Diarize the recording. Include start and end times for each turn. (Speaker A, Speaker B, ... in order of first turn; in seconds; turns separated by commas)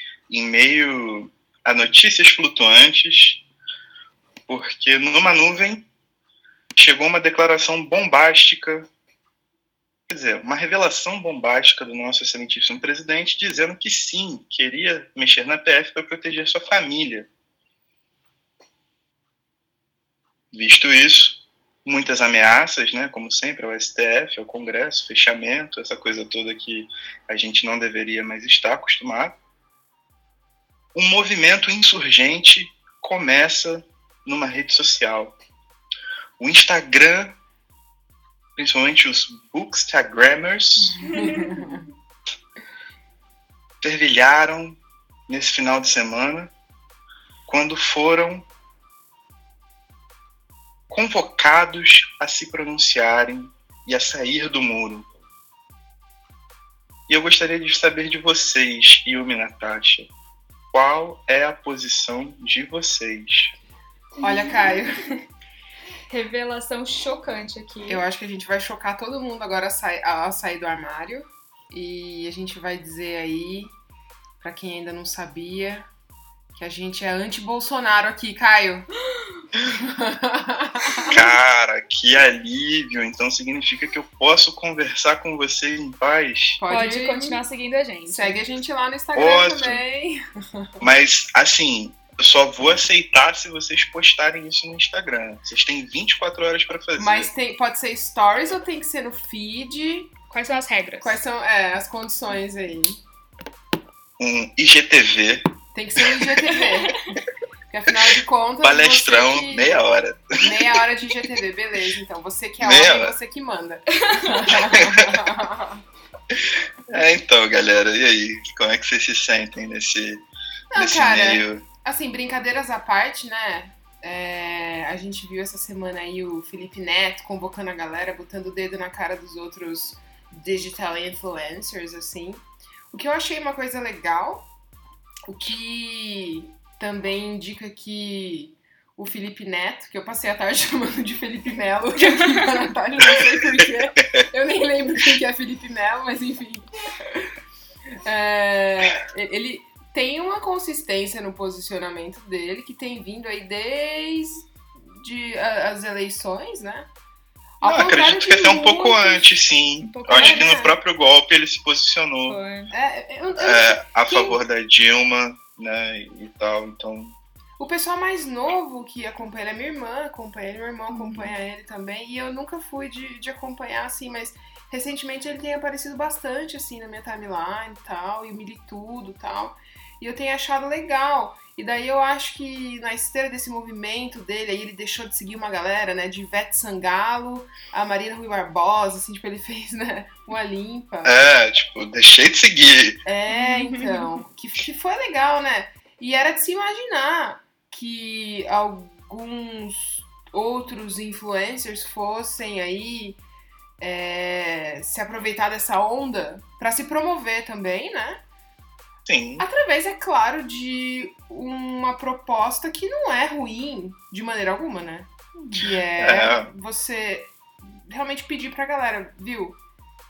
Speaker A: 0.3-3.4, Speaker A: 4.5-5.9, Speaker A: 6.8-8.9, Speaker A: 10.1-17.3, Speaker A: 20.5-29.4, Speaker A: 30.9-35.4, Speaker A: 36.4-37.4, Speaker A: 38.5-41.0, Speaker B: 41.1-41.8, Speaker C: 41.1-41.6, Speaker A: 43.8-46.5, Speaker A: 47.5-48.5, Speaker A: 50.9-55.1, Speaker A: 57.1-60.1, Speaker A: 60.7-63.5, Speaker B: 64.2-65.0, Speaker C: 66.1-68.0, Speaker B: 67.9-73.7, Speaker B: 74.4-75.9, Speaker B: 76.5-78.9, Speaker B: 79.7-81.1, Speaker A: 81.1-86.6, Speaker B: 86.6-87.4, Speaker C: 86.7-88.4, Speaker B: 88.1-90.8, Speaker A: 89.1-89.8, Speaker A: 90.8-97.3, Speaker B: 97.0-100.1, Speaker C: 100.3-101.2, Speaker B: 101.0-103.0, Speaker A: 104.2-105.5, Speaker B: 105.7-107.0, Speaker B: 107.7-109.8, Speaker A: 108.6-110.8, Speaker B: 110.4-115.8, Speaker A: 112.6-113.1, Speaker C: 114.1-114.7, Speaker A: 114.7-115.3, Speaker A: 116.3-121.6, Speaker B: 120.7-134.5, Speaker B: 135.3-147.3, Speaker C: 142.1-142.4, Speaker B: 148.0-156.9, Speaker B: 157.6-159.4, Speaker A: 157.6-162.4, Speaker C: 159.8-160.6, Speaker B: 160.1-160.8, Speaker C: 162.3-162.7, Speaker B: 162.7-164.4, Speaker A: 163.4-167.2, Speaker B: 167.6-191.2, Speaker C: 170.9-171.3, Speaker A: 191.0-193.0, Speaker B: 193.1-203.2, Speaker C: 193.3-194.2, Speaker B: 203.8-208.2, Speaker A: 209.1-209.4, Speaker B: 209.4-219.6, Speaker A: 216.0-216.5